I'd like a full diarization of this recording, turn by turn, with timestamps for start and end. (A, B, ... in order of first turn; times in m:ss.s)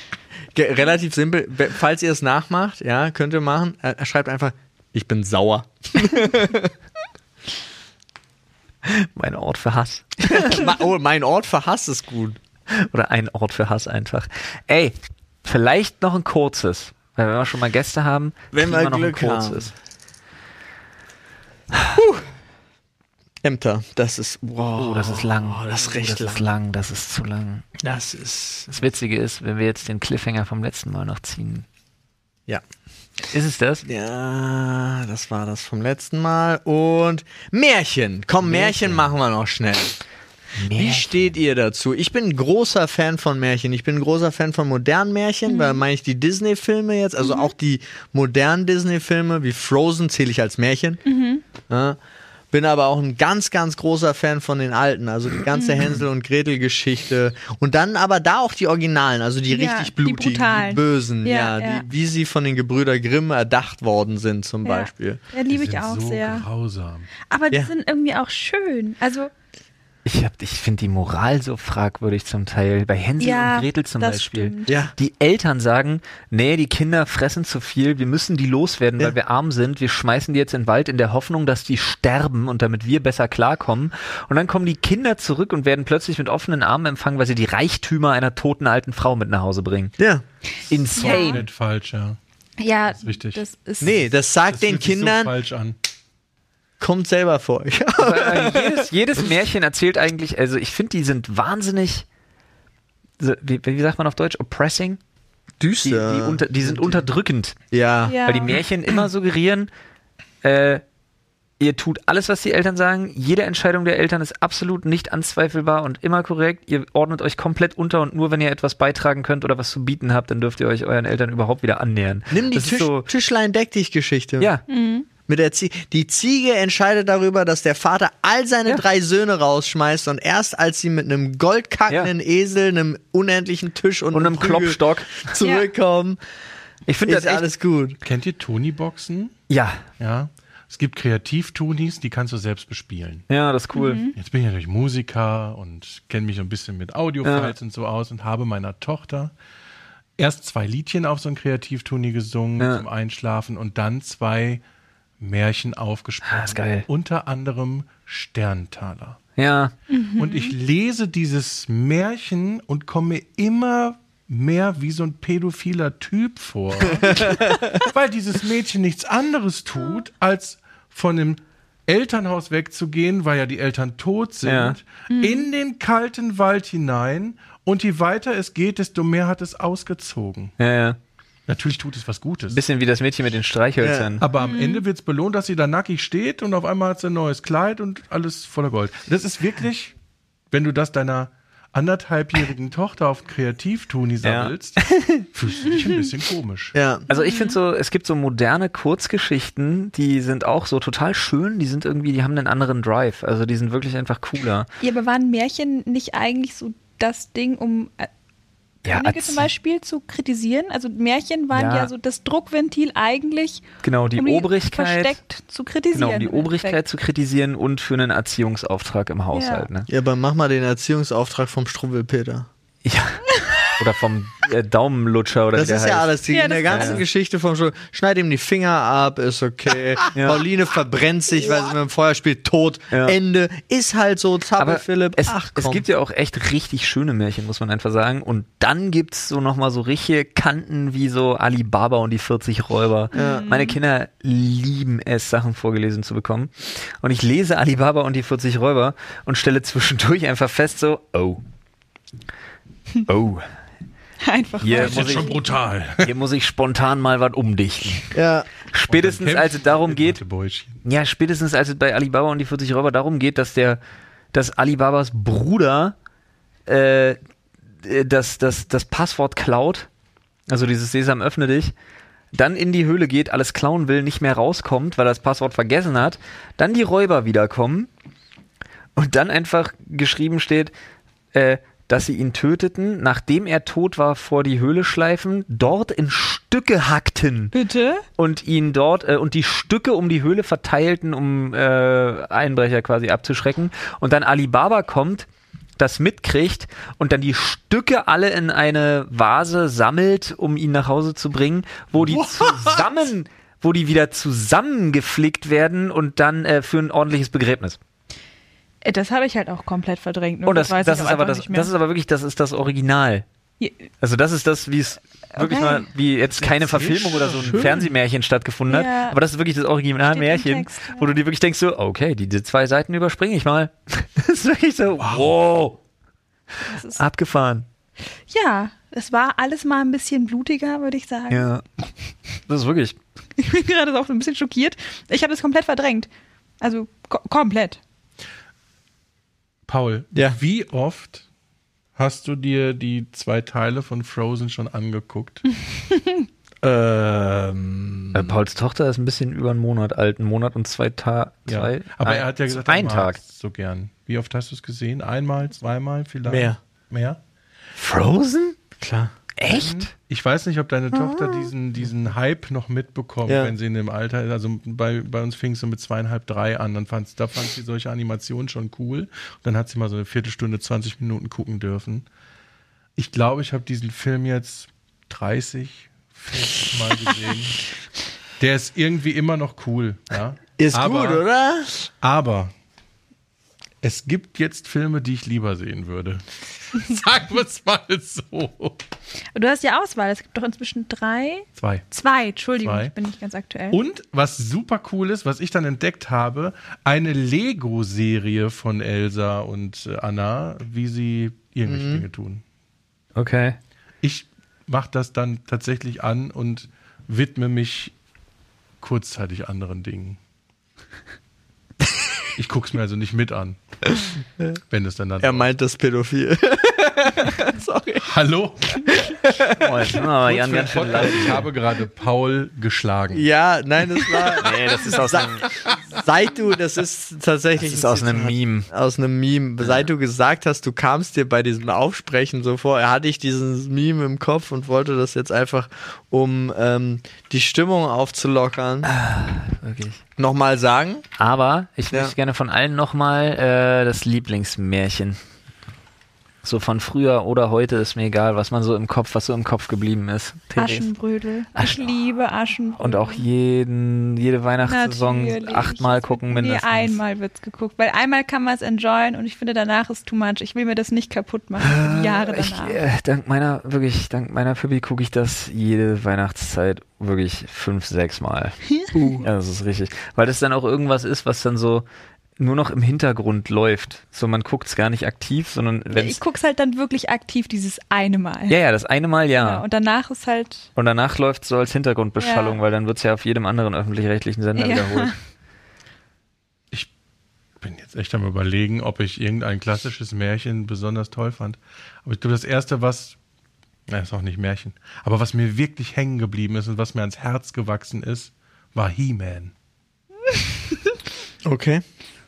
0:00.5-0:06.7 A
0:08.8-0:10.6 B
0:10.3-0:12.4 A
0:12.7-0:19.7 B
0:18.5-0:19.7 A
0:22.0-0:22.3 A
0:23.4-0:26.5 A
0:24.8-0:27.7 B
0:27.8-0:28.8 A
0:28.7-0:31.7 B
0:33.3-0:33.9 B
0:33.9-0:40.0 A
0:38.4-0:39.0 B
0:40.6-0:41.3 B
0:40.7-0:51.0 A
0:45.5-0:45.8 C
0:47.2-0:47.5 C
0:51.1-0:51.4 C
0:51.7-0:52.0 A
0:52.5-1:05.2 A
0:55.5-0:56.0 C
0:59.5-1:01.8 C
1:04.6-1:06.5 C
1:05.5-1:07.1 D
1:07.3-1:09.3 C
1:10.1-1:29.9 B
1:13.2-1:14.8 C
1:14.7-1:14.9 A
1:30.0-1:30.2 A
1:30.7-1:31.4 B
1:30.9-1:32.2 D
1:31.0-1:31.4 C
1:32.6-1:33.9 C
1:32.9-1:33.4 D
1:33.8-1:35.3 A
1:34.4-1:35.8 D
1:36.8-1:38.9 A
1:38.0-1:42.1 B
1:43.2-1:45.0 B
1:45.6-1:47.0 A
1:45.8-1:47.6 B
1:47.7-1:48.2 A
1:48.1-1:48.6 C
1:48.3-1:49.7 B
1:50.4-1:50.8 B
1:51.6-2:03.1 B
2:02.3-2:04.5 A
2:04.7-2:05.1 C
2:05.3-2:16.2 A
2:14.1-2:15.3 B
2:15.4-2:15.7 C
2:16.9-2:17.5 B
2:17.0-2:18.0 A
2:18.0-2:19.3 D
2:19.5-2:19.8 B
2:20.0-2:23.3 D
2:23.3-2:24.1 B
2:23.7-2:24.2 C
2:24.2-2:29.3 D
2:27.2-2:27.5 B
2:30.2-2:34.6 D
2:32.6-2:32.8 B
2:35.2-2:39.2 D
2:36.2-2:36.9 B
2:39.4-2:39.7 B
2:39.9-2:40.6 C
2:40.2-3:00.5 D
2:47.0-2:47.8 A
2:54.4-2:54.8 B
2:55.1-2:55.5 C
3:00.6-3:01.0 B
3:01.5-3:02.6 D
3:02.5-3:04.2 B
3:03.8-3:04.2 A
3:04.2-3:09.9 D
3:04.4-3:04.8 C
3:10.5-3:16.8 D
3:14.2-3:15.3 B
3:15.7-3:16.0 C
3:16.7-3:17.0 A
3:17.1-3:17.6 C
3:17.1-3:24.7 B
3:24.8-3:28.1 C
3:28.8-3:29.5 B
3:28.9-3:36.8 C
3:31.5-3:31.9 B
3:33.8-3:35.2 B
3:35.9-3:39.9 B
3:39.3-3:39.7 C
3:39.9-3:42.5 A
3:42.8-3:43.2 B
3:43.4-3:43.6 C
3:43.8-3:47.0 B
3:45.6-3:55.8 A
3:46.3-3:47.0 C
3:50.2-3:50.4 B
3:52.9-3:53.2 B
3:54.6-4:11.4 B
4:03.1-4:03.5 A
4:03.1-4:03.8 C
4:13.1-4:13.5 B
4:14.2-4:15.5 C
4:14.6-4:15.3 B
4:14.7-4:16.1 D
4:16.0-4:18.1 B
4:18.1-4:18.5 A
4:18.7-4:20.2 B
4:18.9-4:20.8 D
4:20.8-4:23.8 B
4:24.3-4:26.0 B
4:26.7-4:27.2 B
4:27.8-4:29.9 B
4:30.5-4:31.7 B
4:32.3-4:37.9 B
4:39.0-4:40.7 B
4:41.3-4:47.5 B
4:47.5-4:48.1 C
4:48.2-4:55.3 B
4:55.8-5:07.8 B
5:02.0-5:02.9 A
5:08.8-5:11.7 C
5:10.5-5:13.2 B
5:13.6-5:13.8 C
5:14.0-5:25.8 B
5:15.4-5:15.9 C
5:16.4-5:17.9 D
5:18.7-5:19.2 C
5:20.0-5:21.2 C
5:25.0-5:25.3 D
5:26.6-5:27.0 C
5:26.9-5:27.7 B
5:28.3-5:31.5 C
5:31.3-5:31.6 B
5:32.5-5:33.0 B
5:33.4-5:36.1 C
5:36.6-5:37.8 C
5:39.7-5:41.2 D
5:42.0-5:45.4 D
5:45.7-5:46.3 C
5:46.6-5:48.4 A
5:48.1-5:53.2 B
5:51.5-5:57.2 D
5:56.2-5:56.6 A
5:57.8-5:58.6 B
5:58.8-5:59.1 A
5:59.4-5:59.9 B
5:59.5-6:12.1 D
6:00.9-6:01.5 A
6:03.3-6:03.5 A
6:13.0-6:17.7 D
6:18.4-6:21.2 D
6:20.6-6:21.9 A
6:22.0-6:22.5 D
6:23.8-6:28.8 D
6:29.4-6:33.8 C
6:31.6-6:31.8 D
6:32.6-6:32.9 D
6:33.7-6:42.4 D
6:41.7-6:42.1 A
6:43.2-6:43.6 B
6:44.0-6:47.9 D
6:48.8-6:50.2 D
6:52.4-6:53.6 D
6:53.9-6:54.5 A
6:54.7-6:55.5 D
6:55.2-6:58.1 A
6:58.0-6:59.0 D
6:58.9-6:59.8 A
6:59.6-7:01.4 B
7:00.0-7:03.3 D
7:03.1-7:18.9 A
7:04.4-7:05.5 B
7:07.6-7:08.7 B
7:18.8-7:20.0 B
7:20.2-7:21.0 A
7:21.2-7:25.2 B
7:26.4-7:30.9 B
7:30.6-7:33.2 C
7:31.6-7:31.9 B
7:32.8-7:37.0 B
7:34.6-7:42.8 C
7:41.6-7:51.9 B
7:52.4-7:56.2 B
7:55.9-7:58.6 C
7:58.5-7:59.6 B
7:59.4-8:00.7 C
8:00.8-8:05.2 B
8:02.2-8:02.6 C
8:04.6-8:05.1 C
8:07.6-8:13.2 D
8:13.9-8:19.5 D
8:21.4-8:21.8 A